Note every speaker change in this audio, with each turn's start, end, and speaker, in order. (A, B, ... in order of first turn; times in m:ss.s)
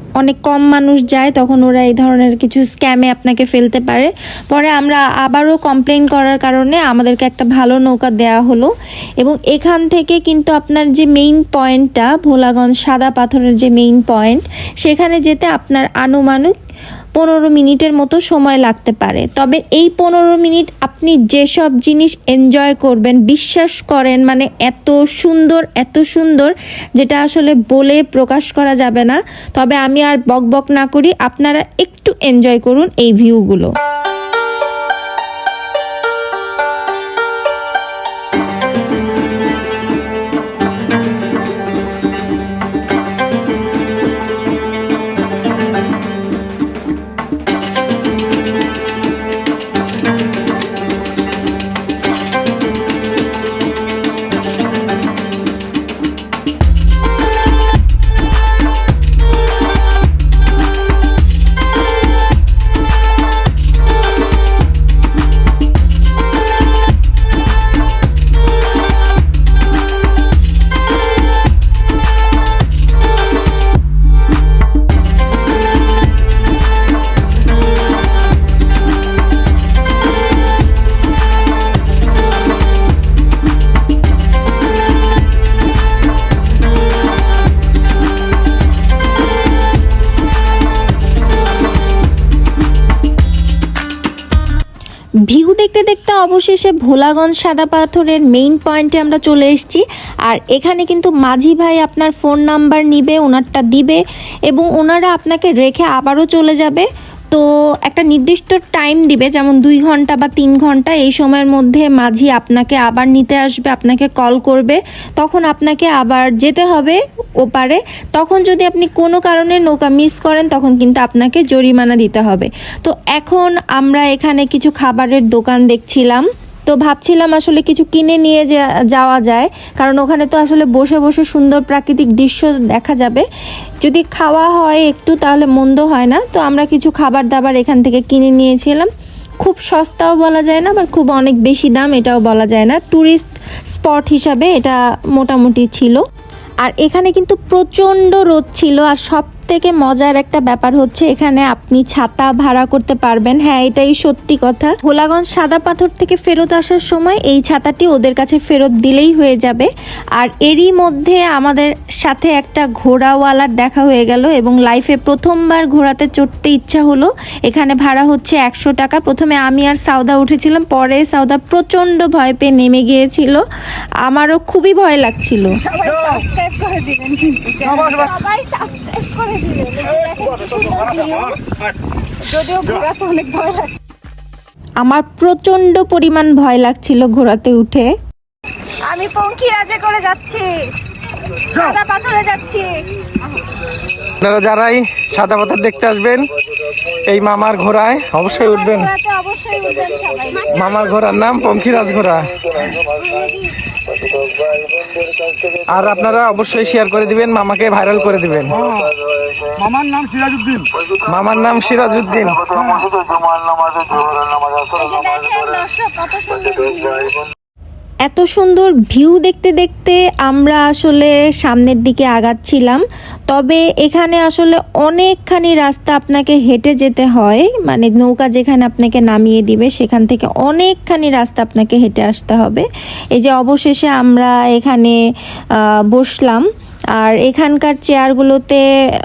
0:00.2-0:16.5 A
0:17.2-0:33.7 A
1:35.3-2:13.2 A
2:13.8-2:26.0 A
2:26.6-2:53.4 A
2:54.0-2:55.6 A
2:55.6-3:01.4 B
3:02.2-3:03.7 B
3:04.8-3:07.9 A
3:08.9-3:10.7 B
3:11.3-3:13.4 B
3:14.2-3:16.3 C
3:16.8-3:18.9 C
3:18.3-3:20.8 B
3:20.5-3:22.4 C
3:22.9-3:23.6 B
3:25.6-3:28.8 C
3:30.9-3:32.8 C
3:34.6-3:37.2 B
3:38.0-3:55.0 A
3:55.6-3:56.4 A
3:57.0-3:58.6 A